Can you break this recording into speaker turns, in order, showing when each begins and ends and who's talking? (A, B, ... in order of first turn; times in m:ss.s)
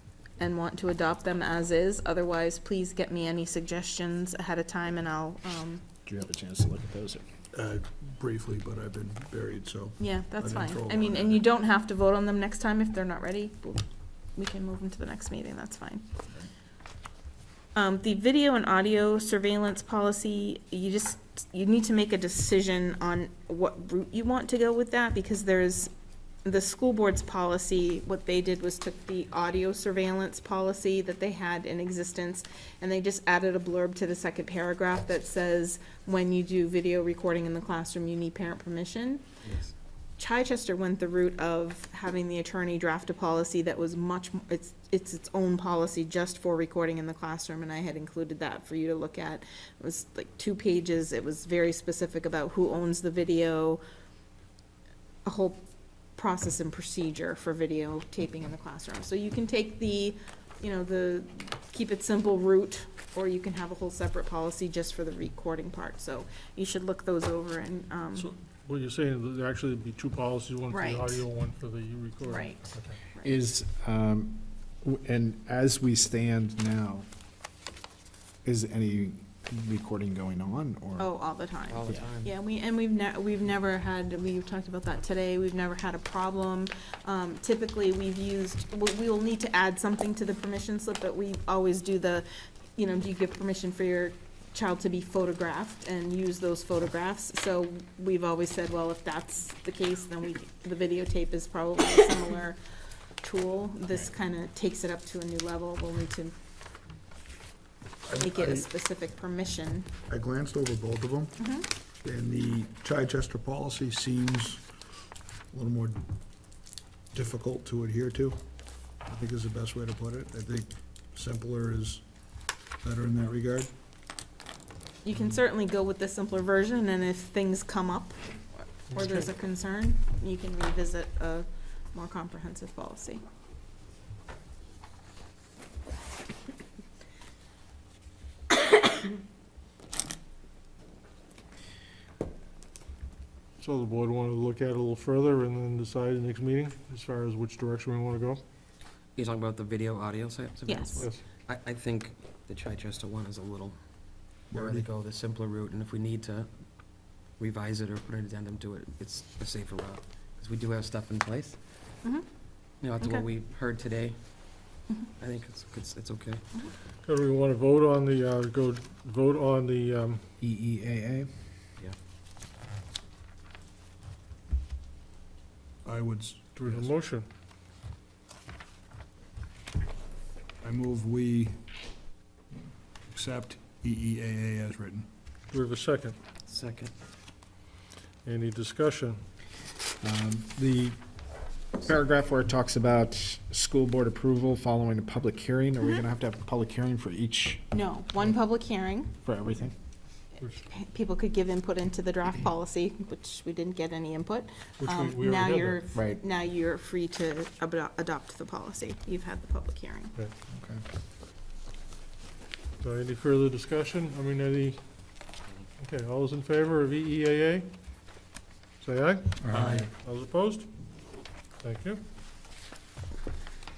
0:00.4-0:05.8 A
0:06.0-0:07.2 B
0:07.5-0:11.4 C
0:10.0-0:16.0 A
0:17.7-0:25.9 A
0:26.4-0:39.2 A
0:39.4-0:39.7 D
0:40.2-0:53.8 A
0:55.2-0:55.6 A
0:56.2-1:08.3 A
1:08.2-1:13.0 E
1:10.7-1:11.2 A
1:12.2-1:13.4 A
1:13.2-1:17.0 B
1:18.4-1:21.1 B
1:21.0-1:42.6 A
1:21.7-1:22.3 D
1:43.2-1:46.3 A
1:48.1-1:48.7 C
1:48.2-1:49.9 A
1:50.1-1:51.4 C
1:51.4-1:51.7 A
1:52.0-1:54.6 C
1:55.5-1:56.0 C
1:57.1-1:58.4 C
1:59.0-2:02.0 C
2:02.8-2:03.7 C
2:05.0-2:08.2 A
2:08.9-2:13.2 A
2:23.6-2:28.4 E
2:29.2-2:41.6 D
2:30.7-2:31.1 A
2:31.0-2:31.2 E
2:34.5-2:34.9 C
2:42.8-2:46.4 D
2:43.0-2:43.3 A
2:47.0-2:50.2 E
2:50.4-2:51.3 B
2:55.8-2:56.9 C
2:56.6-2:57.3 E
3:00.6-3:01.6 C
3:03.1-3:05.1 C
3:05.5-3:06.2 E
3:06.5-3:06.9 D
3:08.2-3:09.2 E
3:10.0-3:11.0 B
3:11.8-3:17.7 B
3:17.7-3:19.1 A
3:19.2-3:19.8 B
3:20.7-3:30.1 A
3:24.8-3:25.8 E
3:26.0-3:26.2 B
3:30.5-3:30.8 B
3:32.8-3:34.8 E
3:35.8-3:37.7 E
3:38.8-3:40.7 E
3:39.4-3:39.9 B
3:39.6-3:39.9 C
3:41.6-3:42.0 E